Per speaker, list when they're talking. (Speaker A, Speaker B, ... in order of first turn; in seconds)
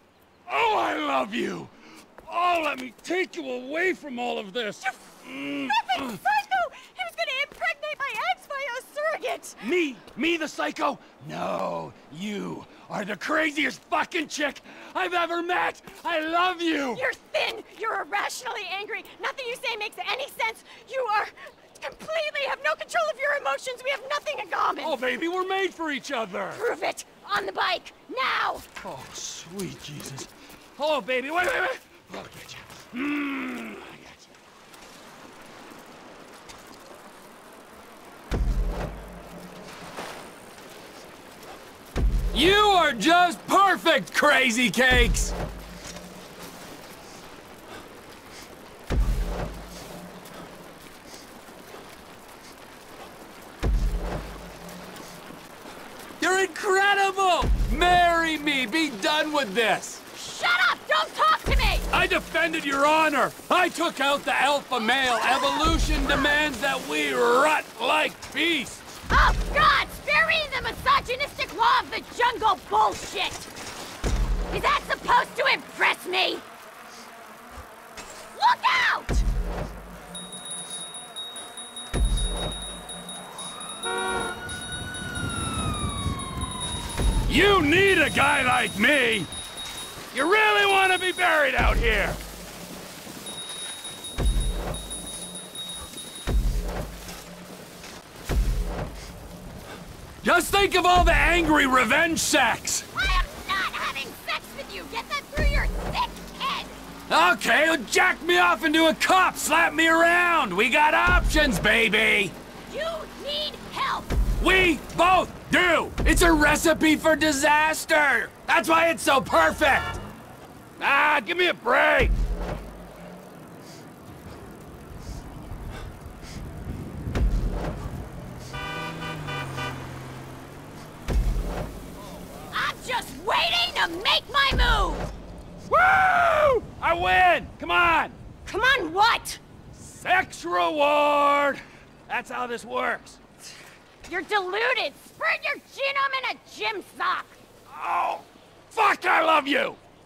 Speaker A: 0.5-6.2, 9.6-17.0, 24.8-26.6, 28.8-34.2, 42.3-45.4, 56.2-60.0, 61.9-68.9, 87.3-89.3, 90.1-92.2, 100.2-102.9, 107.1-112.3, 114.4-120.0, 120.8-122.1, 135.7-138.2, 139.8-143.2, 147.7-149.8
Speaker B: 4.8-9.6, 16.9-25.0, 26.5-28.7, 60.1-61.9, 69.1-73.5, 74.5-76.5, 78.3-79.2, 102.9-106.8, 112.7-114.2, 132.5-135.1, 138.4-139.4, 144.1-147.4